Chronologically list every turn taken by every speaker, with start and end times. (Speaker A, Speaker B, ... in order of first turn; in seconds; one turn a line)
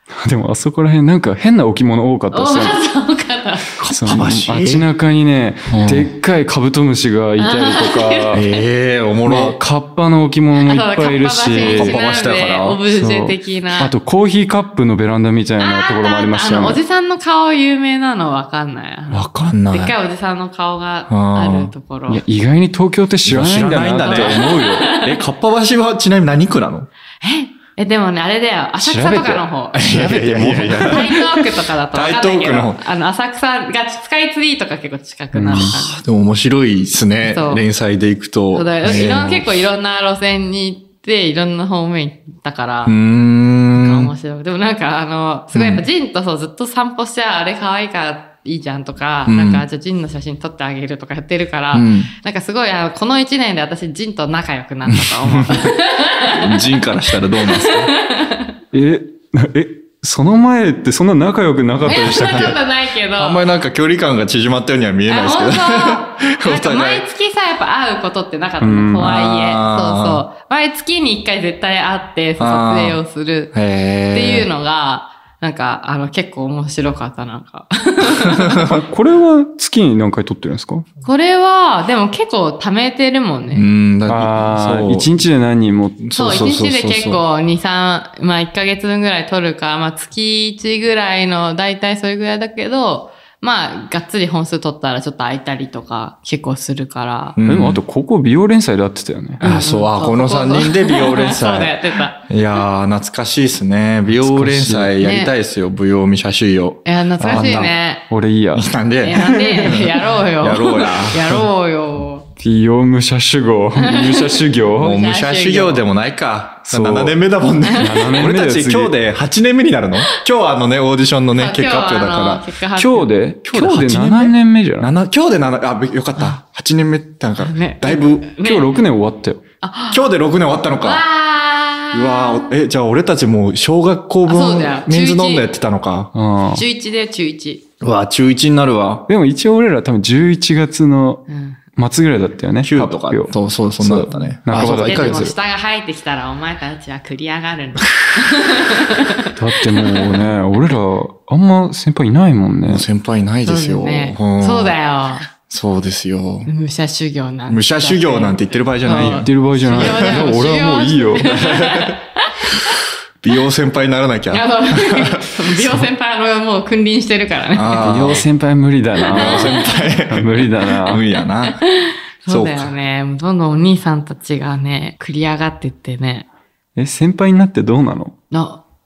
Speaker A: 0.2-2.8
Speaker B: 2.3-3.8
Speaker C: 3.8-4.9
Speaker A: 3.9-8.4
Speaker C: 5.7-6.1
Speaker B: 7.4-8.6
Speaker C: 8.3-9.6
Speaker A: 9.2-12.0
Speaker B: 10.6-13.9
Speaker C: 11.6-12.8
Speaker A: 12.9-16.8
Speaker B: 15.6-22.2
Speaker C: 19.1-19.9
Speaker C: 21.1-21.7
Speaker A: 22.1-25.0
Speaker C: 23.2-26.9
Speaker B: 24.0-25.2
Speaker B: 27.2-30.1
Speaker A: 28.8-31.3
Speaker C: 29.7-32.8
Speaker B: 30.6-36.0
Speaker A: 35.4-35.7
Speaker C: 35.5-39.6
Speaker B: 37.2-37.6
Speaker B: 38.5-43.0
Speaker C: 42.9-44.1
Speaker B: 43.7-58.6
Speaker C: 45.5-45.9
Speaker C: 49.3-49.6
Speaker C: 51.7-52.1
Speaker C: 54.9-55.7
Speaker C: 56.3-57.9
Speaker A: 58.7-62.6
Speaker B: 61.9-63.4
Speaker C: 63.2-67.1
Speaker B: 65.1-73.5
Speaker A: 68.6-69.1
Speaker C: 69.0-70.2
Speaker C: 72.4-73.0
Speaker C: 73.5-74.5
Speaker B: 74.1-78.8
Speaker C: 78.3-78.7
Speaker A: 78.6-80.9
Speaker B: 81.0-83.7
Speaker C: 83.5-85.2
Speaker A: 84.1-86.1
Speaker C: 86.0-87.2
Speaker B: 86.1-97.4
Speaker C: 97.4-97.8
Speaker A: 97.5-99.4
Speaker B: 99.4-102.2
Speaker C: 99.4-107.7
Speaker A: 104.1-105.0
Speaker B: 105.0-105.3
Speaker B: 106.8-108.0
Speaker A: 107.2-109.7
Speaker C: 108.5-111.5
Speaker B: 109.0-112.3
Speaker A: 112.4-115.0
Speaker B: 113.8-115.8
Speaker C: 114.8-122.5
Speaker A: 116.7-117.2
Speaker B: 117.6-118.1
Speaker A: 117.8-119.0
Speaker B: 121.4-123.1
Speaker A: 122.8-124.9
Speaker C: 123.5-128.3
Speaker B: 127.4-128.8
Speaker A: 128.4-129.4
Speaker B: 129.6-130.1
Speaker C: 129.9-131.0
Speaker B: 130.8-132.5
Speaker C: 131.9-136.1
Speaker B: 134.3-135.5
Speaker A: 136.2-136.6
Speaker B: 136.5-137.6
Speaker C: 137.8-139.1
Speaker A: 139.1-145.3
Speaker B: 141.3-141.6
Speaker C: 142.6-145.3
Speaker B: 144.5-150.2
Speaker A: 149.4-152.8
Speaker C: 152.7-154.8
Speaker B: 153.4-155.3
Speaker C: 155.5-156.5
Speaker B: 156.5-162.8
Speaker C: 157.5-160.2
Speaker A: 158.9-161.3
Speaker C: 161.2-162.0
Speaker C: 163.2-165.3
Speaker B: 164.3-167.9
Speaker C: 167.5-168.3
Speaker A: 167.8-171.1
Speaker B: 169.1-169.8
Speaker C: 169.1-171.6
Speaker B: 171.4-176.3
Speaker C: 172.3-172.7
Speaker A: 176.8-178.2
Speaker B: 178.3-178.6